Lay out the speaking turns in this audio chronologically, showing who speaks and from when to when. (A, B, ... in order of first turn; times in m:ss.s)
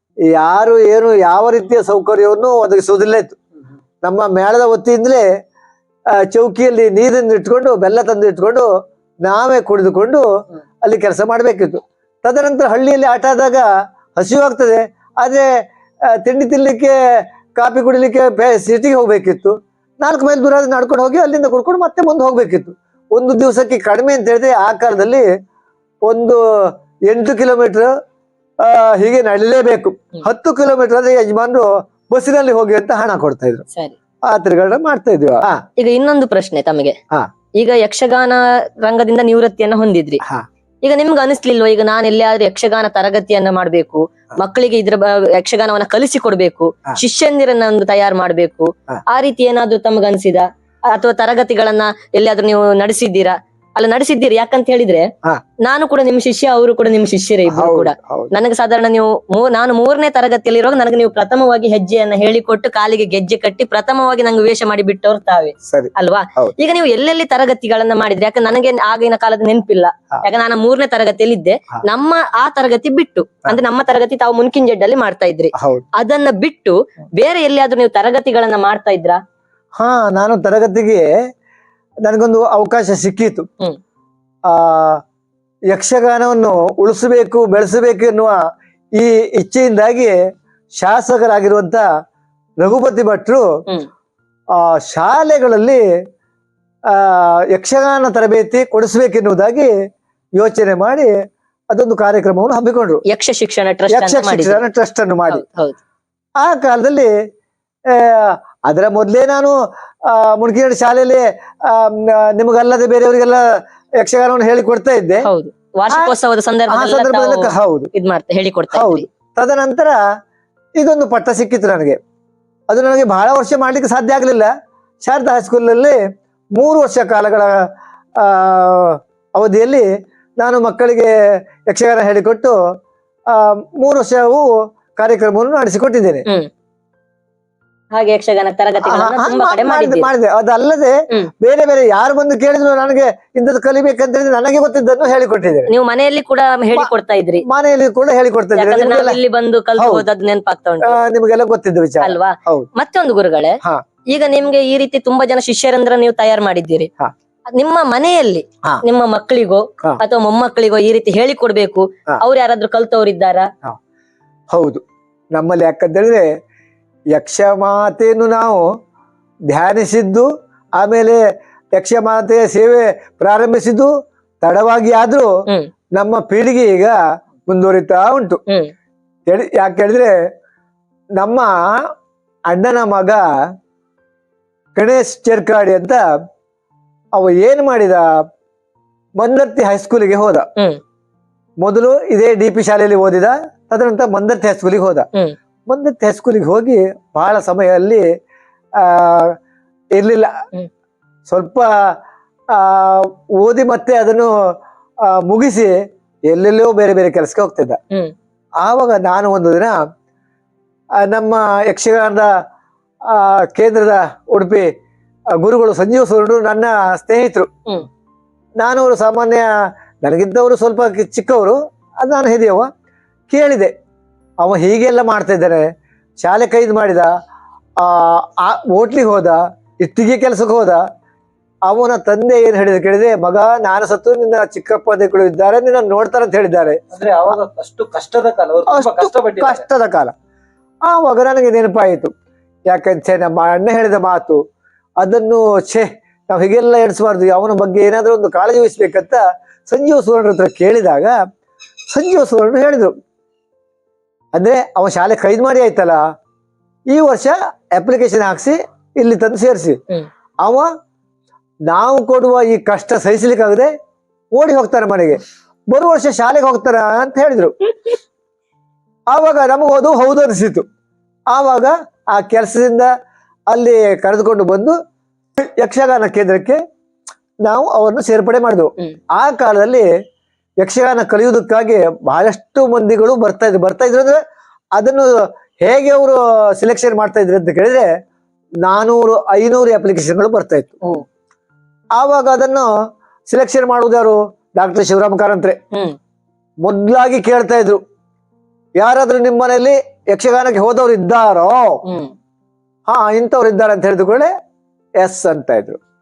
0:00.3-0:03.4 A
0:04.0-0:05.3 A
0:06.1-0:08.7 A
0:09.2-0:10.3 A
0:10.8-0:15.5 A
0:16.1-0:25.3 A
0:26.0-0:27.9 A
0:28.6-0:33.6 A
0:34.3-0:35.6 A
0:35.8-0:37.0 B
0:37.6-0:40.2 B
0:40.8-0:55.1 B
0:55.6-1:19.2 B
0:57.5-0:58.3 A
1:05.7-1:06.6 A
1:15.6-1:15.8 A
1:19.8-1:21.1 A
1:22.0-1:23.5 A
1:24.5-1:25.0 A
1:25.7-1:28.4 A
1:29.0-1:30.2 A
1:30.8-1:31.8 A
1:32.6-1:33.5 A
1:34.5-1:35.8 A
1:36.9-1:39.7 A
1:40.4-1:41.1 A
1:41.7-1:43.0 A
1:43.1-1:44.6 B
1:43.9-1:45.4 A
1:45.3-1:45.8 B
1:46.4-1:47.1 A
1:47.9-1:53.4 A
1:54.0-1:55.3 A
1:55.2-1:59.0 B
1:55.9-1:56.2 A
1:56.7-1:57.9 A
1:58.7-2:00.0 A
2:00.8-2:02.0 A
2:02.7-2:04.5 A
2:05.0-2:06.0 A
2:06.6-2:07.6 A
2:08.2-2:09.9 A
2:10.4-2:11.1 A
2:11.7-2:12.5 A
2:13.3-2:16.2 A
2:17.9-2:20.1 B
2:18.8-2:25.7 A
2:25.7-2:27.4 B
2:27.5-2:29.2 A
2:28.6-2:31.0 B
2:29.8-2:30.0 A
2:30.8-2:32.7 A
2:32.0-2:33.6 B
2:34.1-2:36.9 B
2:37.6-2:43.5 B
2:44.5-2:44.8 A
2:45.3-2:46.3 A
2:47.1-2:48.7 A
2:49.5-2:50.3 A
2:50.8-2:51.2 A
2:51.7-2:53.9 A
2:54.4-2:55.3 A
2:56.0-2:57.0 A
2:57.5-2:58.4 A
2:59.3-3:00.1 A
3:01.2-3:01.5 A
3:02.5-3:03.2 A
3:04.8-3:06.0 A
3:07.2-3:08.0 A
3:09.2-3:10.5 A
3:11.6-3:15.1 A
3:15.7-3:18.0 A
3:18.8-3:19.4 A
3:19.9-3:20.4 A
3:21.3-3:22.0 A
3:22.5-3:25.8 A
3:26.3-3:27.8 A
3:28.6-3:29.8 A
3:31.0-3:32.3 A
3:33.1-3:34.7 A
3:35.4-3:37.5 A
3:38.6-3:39.5 A
3:40.0-3:42.7 A
3:43.3-3:43.7 A
3:44.4-3:47.1 A
3:47.8-3:50.8 A
3:51.6-3:56.8 A
3:56.9-3:59.7 C
3:58.7-4:00.1 A
4:00.8-4:02.1 A
4:02.7-4:04.4 A
4:05.0-4:11.2 A
4:11.9-4:12.9 A
4:14.4-4:16.0 A
4:16.9-4:19.8 A
4:20.4-4:20.7 A
4:21.7-4:23.7 A
4:24.3-4:27.6 A
4:29.1-4:30.6 A
4:31.3-4:32.9 A
4:33.5-4:34.8 A
4:35.4-4:36.6 A
4:37.4-4:39.9 A
4:40.6-4:44.2 A
4:44.8-4:47.9 A
4:48.6-4:50.8 A
4:52.0-4:52.7 A
4:53.3-4:55.6 A
4:56.6-4:57.8 A
4:58.8-5:01.8 A
5:01.8-5:02.1 B
5:02.9-5:04.3 A
5:05.0-5:05.8 A